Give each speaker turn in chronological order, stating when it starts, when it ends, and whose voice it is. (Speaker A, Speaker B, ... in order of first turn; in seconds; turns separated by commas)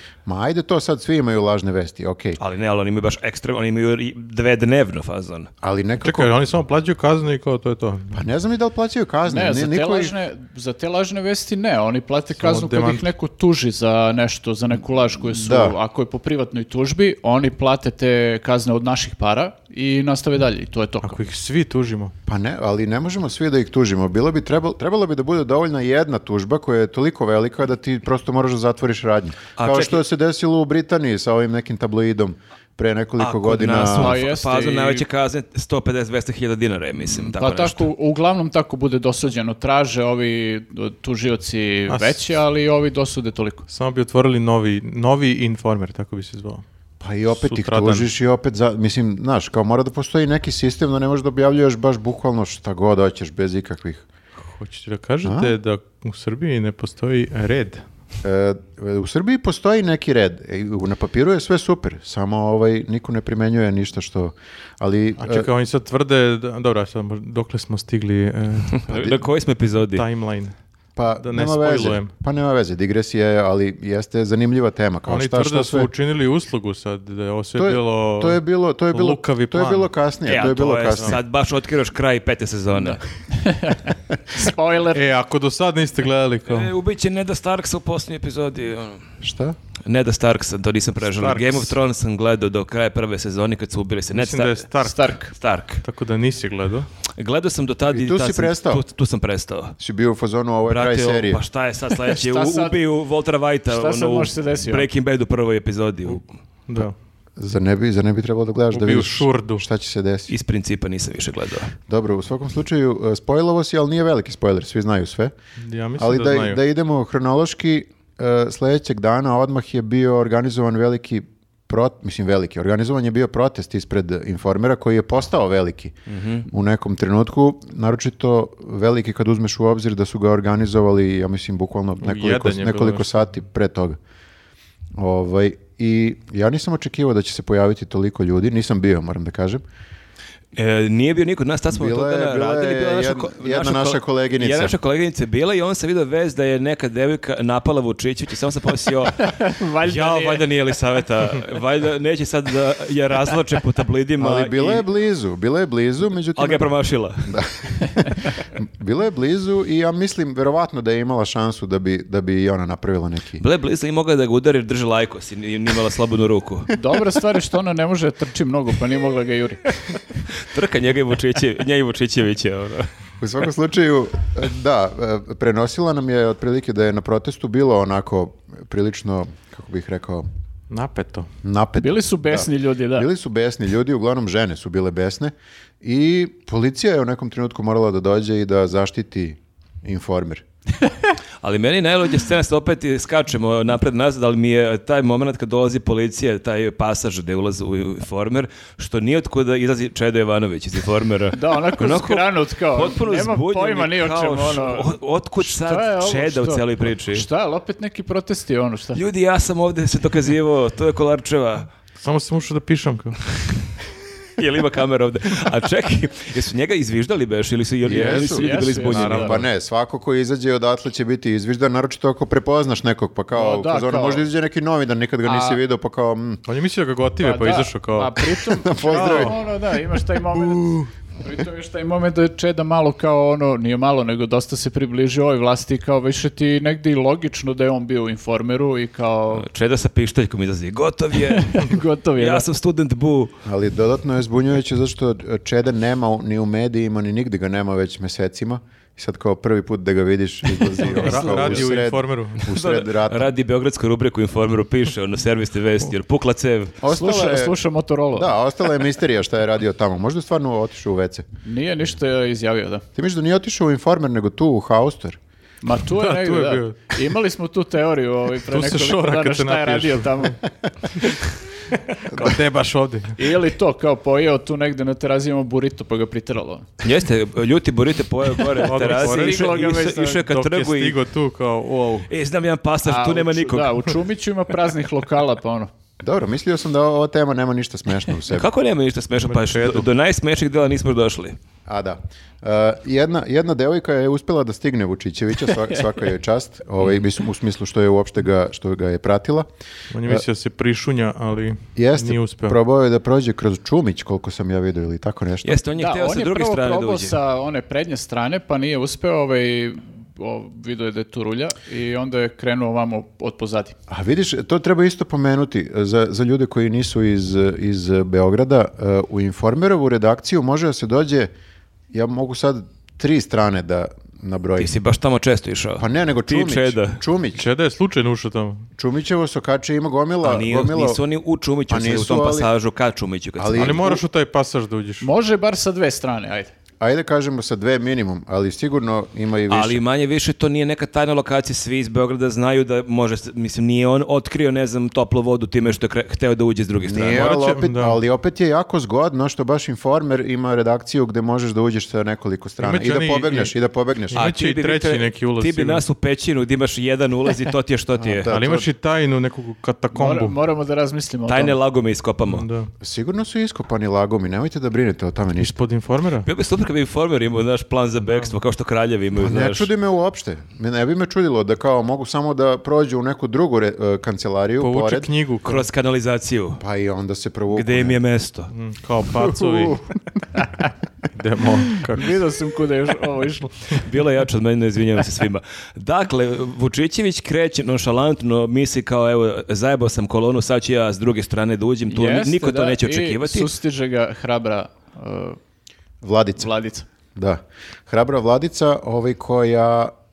Speaker A: 0.2-2.4, Speaker B: 2.4-5.5, Speaker A: 5.6-6.3, Speaker C: 6.0-8.2, Speaker A: 8.1-10.1, Speaker D: 9.3-21.2, Speaker C: 12.4-13.0, Speaker A: 15.4-15.8, Speaker C: 21.0-22.1, Speaker A: 22.2-34.2, Speaker B: 29.6-30.0, Speaker B: 33.2-37.9, Speaker D: 34.0-35.0, Speaker D: 37.0-43.6, Speaker C: 41.9-42.2, Speaker C: 43.7-46.6, Speaker A: 47.0-54.0, Speaker C: 47.3-48.1, Speaker C: 54.4-57.8, Speaker A: 55.2-55.5, Speaker A: 58.2-65.5, Speaker C: 65.2-69.2, Speaker B: 68.7-70.0, Speaker C: 69.9-70.5, Speaker A: 71.0-75.9, Speaker C: 71.2-72.1, Speaker C: 75.1-78.4, Speaker A: 77.5-81.2, Speaker C: 78.9-79.9, Speaker B: 80.2-83.0, Speaker D: 83.3-85.0, Speaker C: 84.9-86.7, Speaker B: 86.5-89.0, Speaker A: 89.2-89.6, Speaker B: 89.8-94.7, Speaker C: 91.0-91.7, Speaker C: 94.1-95.1, Speaker D: 94.8-95.3, Speaker B: 95.4-95.8, Speaker C: 95.8-96.9, Speaker B: 97.2-99.7, Speaker A: 97.9-98.8, Speaker A: 99.8-101.4, Speaker B: 100.7-106.2, Speaker D: 102.0-102.8, Speaker D: 103.7-104.9, Speaker C: 106.7-106.9, Speaker A: 107.4-110.3, Speaker C: 108.7-109.6, Speaker B: 110.3-111.7, Speaker A: 111.9-115.3, Speaker C: 115.6-116.6, Speaker A: 116.0-125.9, Speaker B: 126.1-126.4, Speaker A: 126.5-134.0, Speaker C: 132.0-133.1, Speaker A: 135.0-139.6, Speaker B: 140.6-154.8, Speaker A: 141.7-144.8, Speaker D: 149.2-150.4, Speaker A: 154.2-156.7, Speaker B: 156.3-157.3, Speaker A: 157.3-163.4, Speaker B: 163.4-166.7, Speaker D: 166.7-169.7, Speaker B: 170.3-172.9, Speaker A: 173.2-180.2, Speaker C: 180.7-181.3, Speaker A: 181.4-190.4, Speaker D: 181.8-183.1, Speaker B: 191.4-207.2, Speaker D: 201.3-209.0, Speaker B: 208.9-211.7, Speaker C: 212.0-213.2, Speaker B: 214.3-219.4, Speaker A: 217.8-226.4, Speaker C: 217.9-219.5, Speaker D: 218.0-219.3, Speaker D: 223.3-224.2, Speaker D: 225.2-225.6, Speaker C: 226.4-228.2, Speaker D: 227.2-239.5, Speaker A: 228.4-229.4, Speaker C: 228.8-229.4, Speaker C: 230.4-230.9, Speaker B: 239.3-243.3, Speaker D: 241.2-242.4, Speaker A: 243.4-253.3, Speaker C: 250.8-252.4, Speaker B: 251.0-251.7, Speaker B: 252.4-256.8, Speaker A: 256.8-257.6, Speaker D: 256.9-258.3, Speaker A: 258.1-261.2, Speaker D: 261.4-262.8, Speaker A: 262.9-265.2, Speaker D: 265.6-270.4, Speaker C: 265.9-266.9, Speaker C: 268.5-270.4, Speaker C: 270.9-271.3, Speaker C: 271.9-273.2, Speaker A: 272.1-272.4, Speaker D: 273.2-276.7, Speaker B: 276.8-281.0, Speaker C: 278.6-282.1, Speaker D: 278.6-280.2, Speaker B: 282.1-283.9, Speaker D: 282.8-285.7, Speaker A: 286.0-288.5, Speaker B: 288.3-291.4, Speaker C: 289.2-289.9, Speaker A: 291.6-299.5, Speaker C: 299.9-302.6, Speaker A: 301.8-305.6, Speaker B: 305.4-307.2, Speaker D: 305.8-313.7, Speaker A: 313.9-321.3, Speaker A: 321.9-324.7, Speaker B: 324.6-327.0, Speaker A: 325.8-327.4, Speaker C: 327.4-328.7, Speaker A: 328.8-331.0, Speaker B: 330.2-333.8, Speaker A: 331.7-332.5, Speaker A: 333.4-334.0, Speaker C: 333.6-335.1, Speaker D: 335.0-336.5, Speaker A: 336.8-339.8, Speaker B: 339.5-347.3, Speaker A: 346.8-354.3, Speaker C: 347.1-348.0, Speaker C: 352.6-353.5, Speaker C: 354.1-355.8, Speaker B: 354.1-358.3, Speaker A: 358.0-358.7, Speaker C: 358.2-360.4, Speaker D: 359.9-361.6, Speaker B: 361.3-362.4, Speaker C: 362.2-362.7, Speaker A: 362.8-365.6, Speaker C: 365.4-366.3, Speaker B: 366.2-369.7, Speaker C: 368.0-368.3, Speaker A: 369.1-375.1, Speaker C: 374.6-375.6, Speaker B: 375.4-376.6, Speaker A: 376.6-378.0, Speaker B: 377.5-378.5, Speaker C: 378.5-379.8, Speaker A: 379.5-379.7, Speaker C: 381.1-382.1, Speaker D: 381.9-383.8, Speaker B: 383.8-393.5, Speaker D: 391.9-395.4, Speaker A: 396.0-396.5, Speaker D: 396.4-396.9, Speaker A: 397.1-399.9